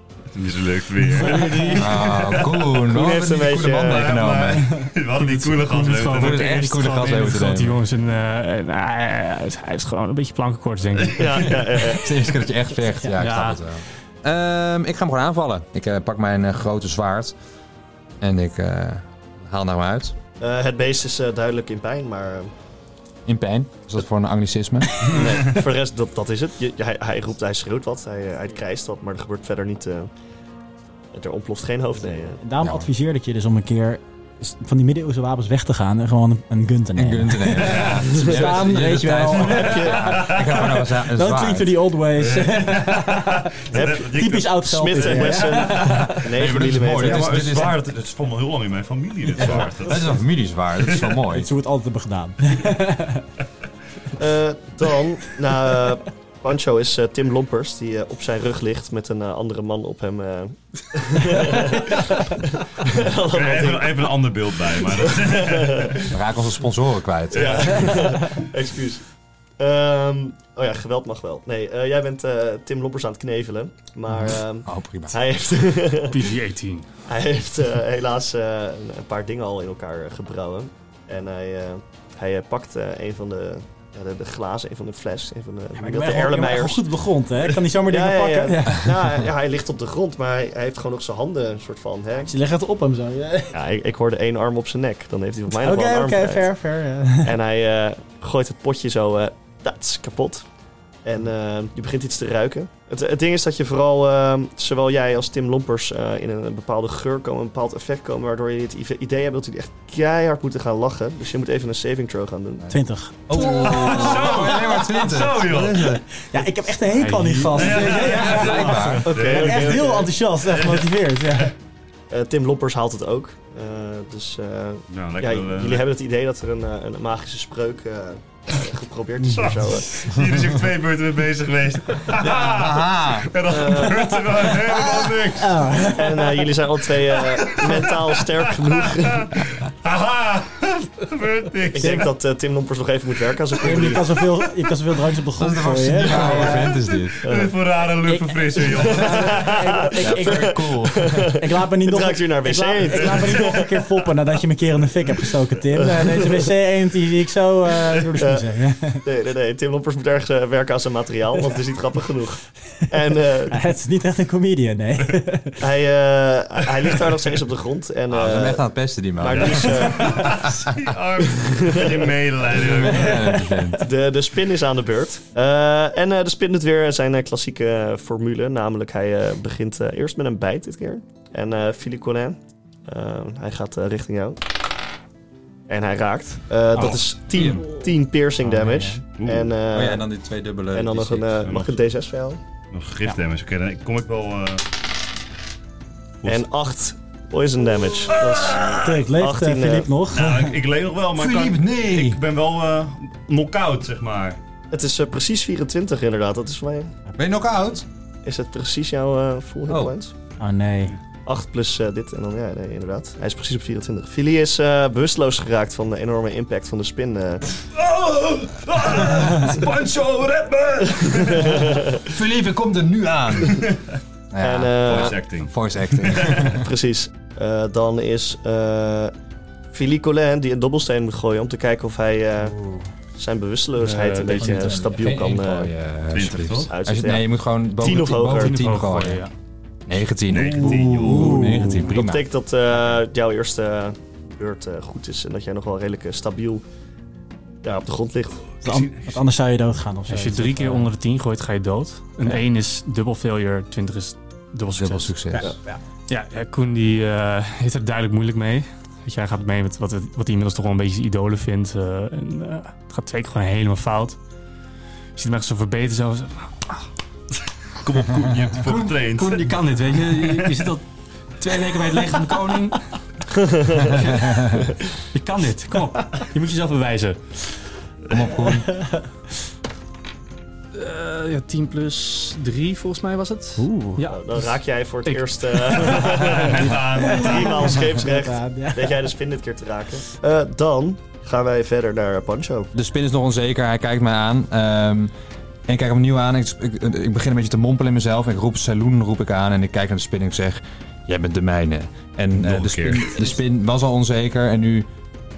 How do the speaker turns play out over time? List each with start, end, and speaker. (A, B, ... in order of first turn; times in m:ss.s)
0:00.3-0:02.6 A
0:01.2-0:01.9 B
0:01.3-0:01.8 C
0:01.8-0:04.7 D
0:02.9-0:04.2 E
0:03.8-0:06.6 A
0:05.2-0:11.7 B
0:06.0-0:07.8 D
0:11.1-0:12.1 E
0:11.7-0:17.4 D
0:13.2-0:13.6 B
0:18.2-0:20.2 D
0:20.4-0:22.5 E
0:23.3-0:25.6 D
0:25.0-0:30.1 E
0:31.1-0:32.4 E
0:32.4-0:46.3 C
0:32.6-0:32.9 D
0:37.0-0:41.8 D
0:37.7-0:38.1 A
0:39.6-0:40.7 A
0:39.7-0:40.0 E
0:42.2-0:45.5 A
0:43.7-0:47.6 E
0:45.7-0:47.8 D
0:46.7-0:50.2 A
0:49.4-0:51.5 D
0:50.8-0:51.2 A
0:51.3-0:53.3 C
0:54.1-1:04.1 E
1:03.2-1:06.1 A
1:04.8-1:06.2 E
1:06.1-1:08.0 D
1:07.3-1:09.0 E
1:07.4-1:07.7 A
1:09.6-1:16.3 E
1:14.2-1:15.2 D
1:16.1-1:16.9 B
1:17.1-1:26.9 E
1:25.8-1:29.0 C
1:27.6-1:32.3 E
1:32.2-1:33.6 C
1:33.5-1:36.5 E
1:35.5-1:37.4 C
1:37.2-1:40.5 E
1:41.0-1:52.7 E
1:52.7-1:55.1 C
1:53.3-1:56.0 D
1:53.4-1:56.0 A
1:56.2-2:01.6 C
1:56.9-1:57.9 B
1:57.6-1:59.8 A
1:58.0-1:59.1 D
1:59.1-2:00.1 E
2:00.5-2:00.9 A
2:02.1-2:10.0 E
2:04.9-2:05.9 A
2:09.4-2:15.7 A
2:12.1-2:13.3 D
2:13.5-2:14.2 E
2:14.6-2:16.5 C
2:15.8-2:19.5 E
2:17.1-2:22.1 A
2:21.7-2:24.2 E
2:21.8-2:22.1 C
2:23.6-2:26.8 C
2:25.4-2:27.3 D
2:26.3-2:26.7 E
2:27.2-2:27.6 E
2:27.2-2:29.6 A
2:28.0-2:39.0 C
2:28.7-2:34.1 E
2:30.0-2:31.4 D
2:35.7-2:36.5 E
2:37.9-2:38.5 E
2:39.0-2:43.7 E
2:43.5-2:45.6 C
2:45.6-2:48.7 E
2:48.1-2:50.1 D
2:49.2-2:50.5 E
2:49.4-2:53.2 A
2:51.3-2:52.1 E
2:52.5-2:53.9 D
2:53.0-2:53.8 C
2:53.8-3:04.4 E
3:05.7-3:10.0 E
3:06.8-3:07.7 D
3:08.4-3:09.0 C
3:09.2-3:09.5 A
3:09.7-3:11.6 D
3:10.7-3:12.4 E
3:11.4-3:11.7 A
3:12.7-3:14.6 A
3:16.2-3:19.9 E
3:18.1-3:19.0 A
3:18.8-3:20.6 C
3:20.1-3:24.4 A
3:21.1-3:22.2 D
3:24.7-3:26.9 E
3:27.1-3:27.9 D
3:28.2-3:30.1 E
3:29.7-3:30.0 D
3:30.4-3:31.0 C
3:31.3-3:37.5 E
3:37.7-3:41.8 A
3:41.0-3:42.1 E
3:42.0-3:43.7 D
3:44.3-3:46.7 D
3:44.4-3:45.2 E
3:44.8-3:46.5 A
3:46.0-3:49.1 E
3:49.7-3:52.6 E
3:53.2-3:55.7 E
3:53.8-3:54.7 B
3:54.3-3:59.3 D
3:56.1-3:56.7 A
3:56.7-3:58.6 E
3:58.2-3:59.3 B
3:59.9-4:02.3 D
4:00.3-4:01.4 A
4:00.8-4:01.9 C
4:01.2-4:06.6 E
4:07.6-4:08.5 E
4:08.6-4:10.9 C
4:08.6-4:09.2 A
4:10.1-4:15.1 B
4:14.7-4:15.5 D
4:15.3-4:15.8 C
4:16.1-4:24.2 B
4:25.2-4:26.8 B
4:27.8-4:29.5 A
4:28.6-4:30.9 B
4:30.1-4:30.5 A
4:31.4-4:32.8 B
4:33.4-4:34.0 E
4:33.8-4:34.4 B
4:34.2-4:34.6 D
4:35.1-4:37.4 B
4:38.1-4:38.8 D
4:38.7-4:39.0 C
4:40.7-4:44.4 B
4:43.6-4:44.0 C
4:44.1-4:52.7 E
4:45.1-4:46.7 B
4:46.0-4:47.8 A
4:46.8-4:49.1 C
4:52.7-4:55.1 D
4:55.7-5:04.9 D
5:02.4-5:03.3 A